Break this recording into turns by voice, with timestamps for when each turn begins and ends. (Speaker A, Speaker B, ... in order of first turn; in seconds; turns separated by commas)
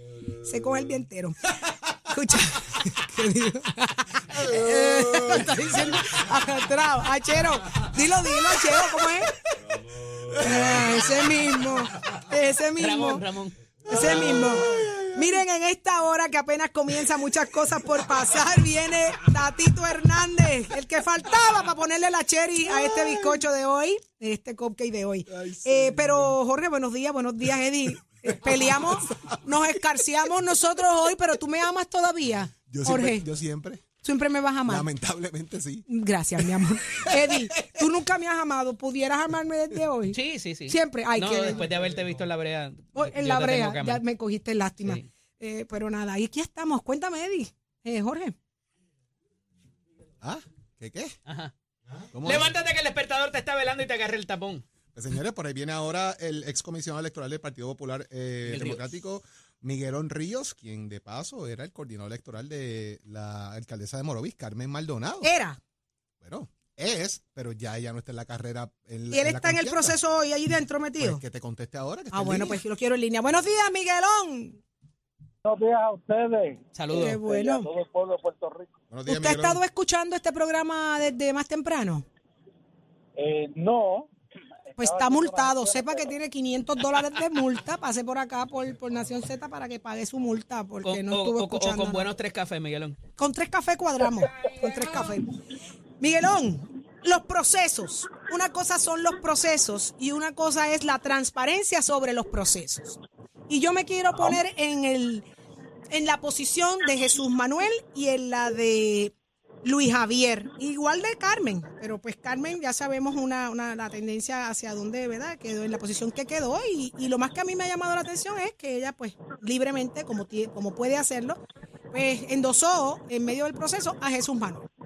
Speaker A: 0.4-9.4, Speaker B: 4.5-5.5, Speaker A: 10.4-13.2, Speaker C: 12.8-14.5, Speaker A: 13.9-33.2, Speaker B: 13.9-15.2, Speaker B: 25.4-26.3, Speaker B: 28.4-28.8, Speaker B: 32.7-33.8, Speaker A: 34.0-34.9, Speaker B: 34.7-35.9, Speaker A: 35.9-41.7, Speaker B: 36.6-37.4, Speaker C: 40.1-44.0, Speaker A: 43.0-48.4, Speaker B: 50.2-51.2, Speaker C: 51.3-51.5, Speaker B: 52.1-52.5, Speaker C: 52.2-54.6, Speaker B: 55.0-65.3, Speaker C: 58.5-58.8, Speaker A: 65.2-65.6, Speaker B: 66.2-70.0, Speaker A: 69.1-71.2, Speaker B: 71.0-72.6, Speaker A: 72.1-74.6, Speaker D: 75.4-78.7, Speaker C: 76.8-77.2, Speaker A: 76.9-77.7, Speaker B: 78.9-79.6, Speaker A: 79.1-82.0, Speaker D: 83.2-84.1, Speaker D: 84.7-86.2, Speaker A: 84.8-92.1, Speaker C: 90.8-93.0, Speaker A: 93.2-95.3, Speaker A: 96.0-103.0, Speaker A: 103.5-105.3, Speaker A: 105.9-121.4, Speaker A: 121.9-124.7